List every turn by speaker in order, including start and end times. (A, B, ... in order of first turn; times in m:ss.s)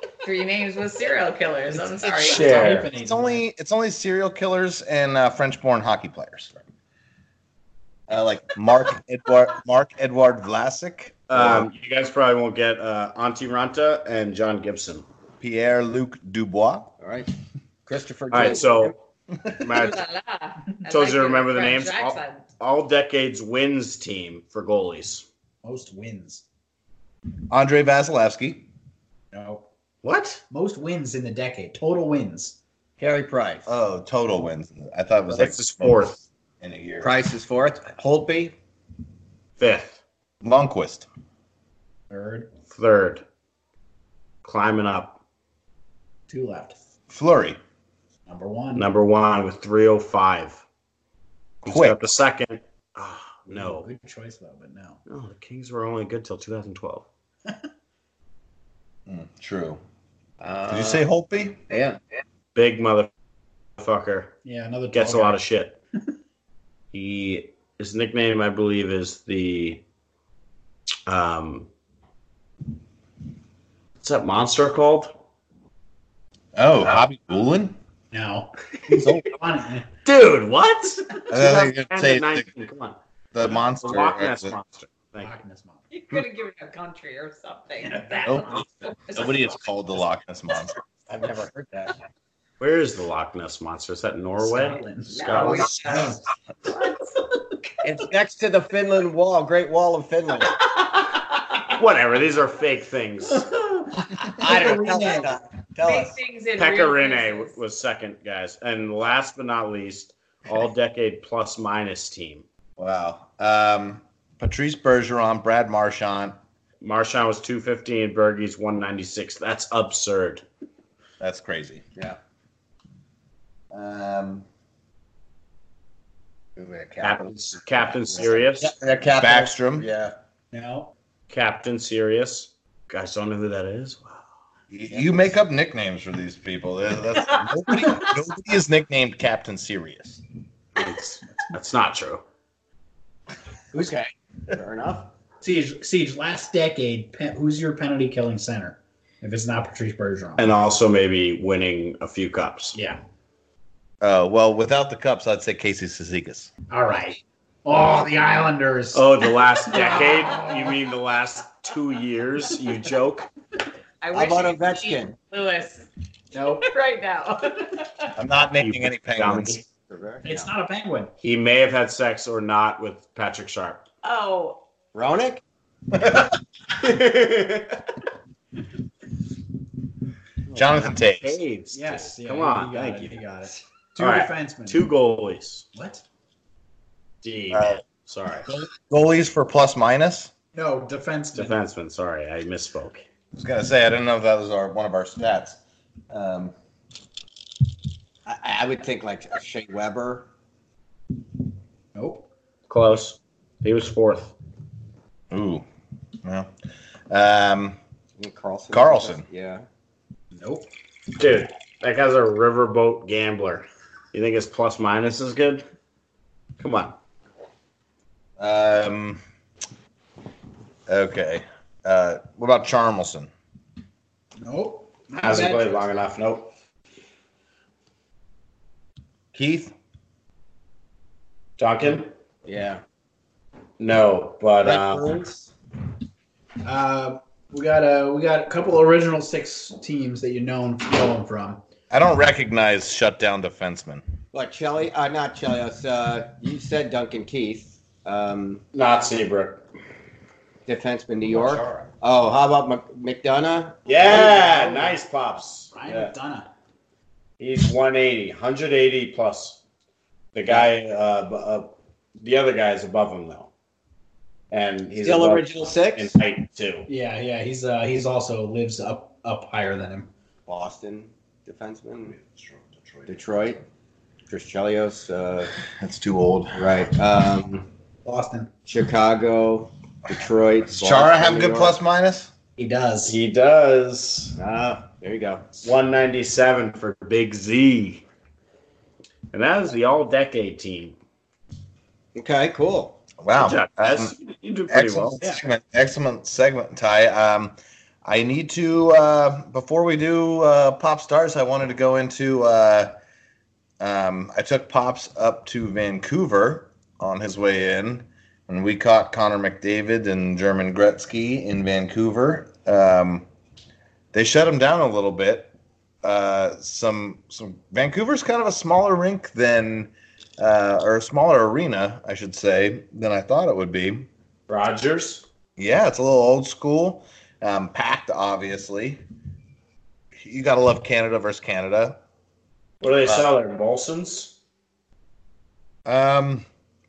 0:00.2-0:02.7 A
0:01.8-0:03.4 B
0:02.2-0:02.9 C
0:02.9-0:06.6 D
0:08.1-0:11.7 D
0:11.3-0:15.0 C
0:15.4-0:16.9 D
0:17.0-0:17.3 E
0:17.8-0:18.9 E
0:18.3-0:18.9 C
0:19.5-0:20.0 C
0:19.6-0:22.4 A
0:20.8-0:25.3 C
0:25.6-0:26.4 B
0:27.5-0:28.7 D
0:29.3-0:29.6 B
0:30.0-0:30.4 C
0:30.5-0:32.6 B
0:33.0-0:33.7 E
0:33.6-0:37.1 D
0:35.3-0:36.2 C
0:37.0-0:38.5 E
0:39.6-0:40.0 C
0:40.4-0:41.0 D
0:42.1-0:42.5 B
0:42.7-0:43.2 C
0:44.4-0:45.2 C
0:46.3-0:46.8 B
0:47.1-0:47.6 D
0:48.3-0:48.9 B
0:48.7-0:50.6 C
0:51.6-0:52.0 D
0:51.6-0:53.9 C
0:53.5-0:55.0 B
0:55.1-0:57.0 C
0:59.1-0:59.8 D
1:00.4-1:01.0 E
1:00.7-1:01.6 D
1:01.7-1:02.0 E
1:02.5-1:03.1 C
1:03.8-1:04.4 C
1:04.4-1:05.4 B
1:04.9-1:05.8 C
1:06.9-1:09.8 C
1:11.1-1:11.7 C
1:14.0-1:15.1 C
1:16.6-1:17.8 D
1:18.1-1:19.9 B
1:18.9-1:19.2 D
1:20.0-1:25.4 C
1:21.3-1:22.5 D
1:23.3-1:24.5 D
1:25.2-1:25.8 B
1:25.9-1:29.5 A
1:27.8-1:28.6 B
1:28.2-1:30.7 D
1:31.1-1:31.9 E
1:32.6-1:35.7 C
1:34.4-1:36.2 B
1:35.1-1:36.2 A
1:35.3-1:35.7 E
1:37.8-1:40.6 E
1:41.7-1:43.5 C
1:43.3-1:45.3 B
1:44.3-1:46.1 E
1:45.8-1:47.6 A
1:46.6-1:52.4 C
1:52.8-1:56.4 D
1:56.8-2:00.4 C
2:01.2-2:01.8 D
2:03.7-2:04.4 D
2:06.6-2:10.1 E
2:07.0-2:08.7 C
2:09.2-2:09.9 D
2:10.5-2:10.9 B
2:11.3-2:14.2 C
2:14.7-2:20.2 D
2:14.9-2:15.2 E
2:20.8-2:22.2 C
2:23.7-2:25.1 E
2:25.4-2:30.5 B
2:30.4-2:32.8 C
2:34.0-2:36.5 D
2:36.7-2:39.1 B
2:38.9-2:43.3 C
2:39.7-2:40.8 B
2:44.0-2:45.9 A
2:44.1-2:45.1 E
2:46.3-2:46.7 B
2:46.5-2:48.1 A
2:48.2-2:49.6 D
2:48.6-2:49.6 C
2:49.9-2:50.5 E
2:50.2-2:51.1 B
2:51.2-2:53.8 C
2:54.0-2:54.6 A
2:54.9-2:55.4 E
2:56.0-2:56.2 D
2:56.8-2:57.7 C
3:00.5-3:03.2 C
3:00.5-3:01.4 D
3:01.7-3:04.9 B
3:04.0-3:05.7 C
3:05.7-3:06.0 B
3:07.2-3:08.5 C
3:07.5-3:07.8 D
3:08.4-3:10.3 D
3:10.5-3:11.6 B
3:11.3-3:13.0 C
3:13.3-3:15.6 D
3:16.1-3:16.5 D
3:18.3-3:20.3 E
3:21.9-3:22.2 B
3:22.7-3:24.3 C
3:25.3-3:25.6 D
3:26.2-3:26.5 D
3:27.1-3:27.8 D
3:28.2-3:29.6 E
3:28.7-3:29.2 D
3:30.4-3:30.7 B
3:31.2-3:35.6 C
3:36.6-3:37.0 C
3:38.4-3:39.2 D
3:40.9-3:43.3 D
3:44.4-3:45.8 B
3:45.2-3:46.5 C
3:49.3-3:49.7 D
3:51.6-3:52.1 C
3:52.4-3:52.8 E
3:53.8-3:55.2 C
3:54.6-3:55.5 E
3:56.6-4:01.6 B
4:01.9-4:04.0 D
4:04.3-4:08.6 E
4:08.7-4:09.6 C
4:10.6-4:14.2 E
4:11.5-4:11.8 D
4:13.9-4:16.1 C
4:14.0-4:15.0 B
4:15.7-4:16.5 B
4:17.4-4:19.6 C
4:20.3-4:23.5 C
4:24.5-4:26.9 C
4:25.0-4:26.1 E
4:26.9-4:30.1 B
4:30.5-4:32.2 E
4:33.0-4:33.6 E
4:34.3-4:35.5 E
4:35.6-4:36.8 D
4:36.5-4:37.7 E
4:38.0-4:38.5 B
4:38.6-4:41.8 E
4:40.7-4:42.3 D
4:42.6-4:43.1 B
4:43.0-4:44.4 C
4:44.4-4:45.5 E
4:45.6-4:48.0 C
4:49.3-4:51.0 C
4:52.1-4:53.0 E
4:53.2-4:54.1 D
4:53.3-4:55.4 C
4:54.7-5:02.9 D
5:03.8-5:13.3 D
5:14.1-5:15.5 D
5:16.0-5:24.1 D
5:24.5-5:25.2 C
5:25.6-5:29.0 D
5:30.2-5:32.0 D
5:32.8-5:34.3 C
5:35.8-5:36.4 D